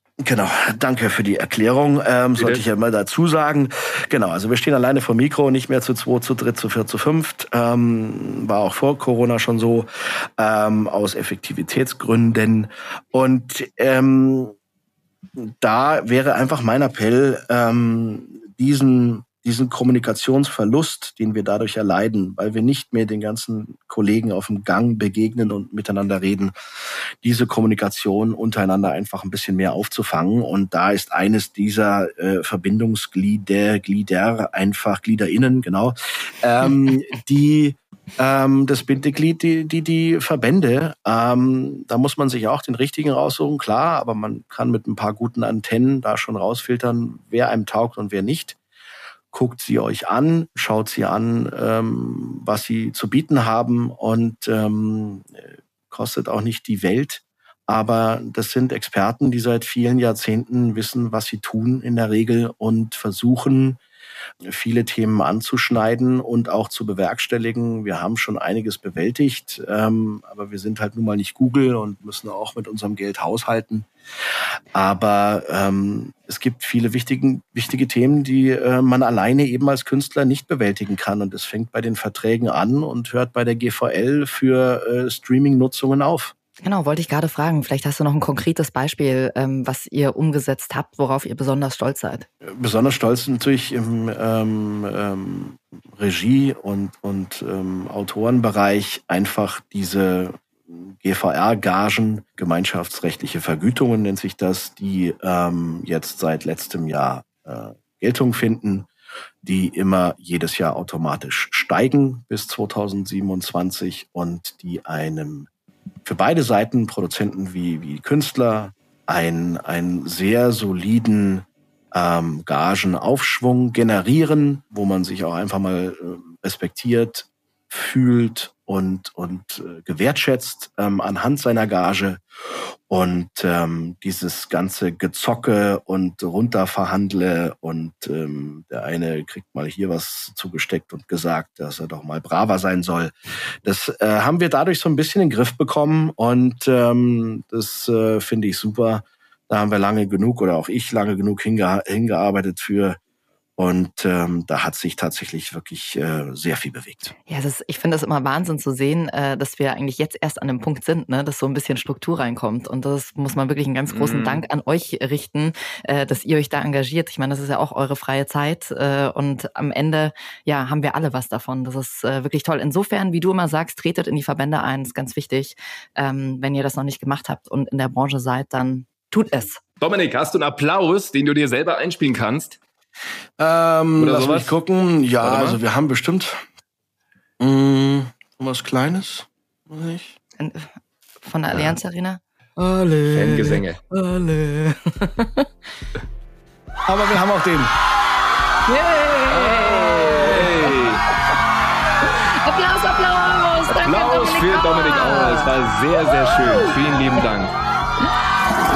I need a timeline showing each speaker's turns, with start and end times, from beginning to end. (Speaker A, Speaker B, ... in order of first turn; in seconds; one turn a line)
Speaker A: 0.2-14.5
Speaker B: 2.4-2.6
Speaker A: 15.4-26.5
Speaker A: 27.2-48.5
Speaker A: 49.3-63.8
Speaker A: 64.4-73.9
Speaker A: 74.7-86.3
Speaker C: 86.6-92.3
Speaker A: 92.4-108.9
Speaker A: 109.4-115.5
Speaker A: 116.0-132.2
Speaker A: 132.9-153.0
Speaker A: 153.6-157.1
Speaker C: 157.3-179.6
Speaker B: 163.9-164.4
Speaker B: 179.8-182.6
Speaker A: 183.4-186.4
Speaker B: 184.0-184.6
Speaker B: 185.2-185.6
Speaker A: 187.4-190.2
Speaker C: 190.4-190.7
Speaker C: 191.2-192.2
Speaker A: 192.6-193.5
Speaker B: 193.1-193.8
Speaker C: 193.9-195.5
Speaker A: 196.9-197.7
Speaker C: 198.7-200.5
Speaker B: 199.3-201.0
Speaker C: 202.2-205.5
Speaker B: 203.7-207.5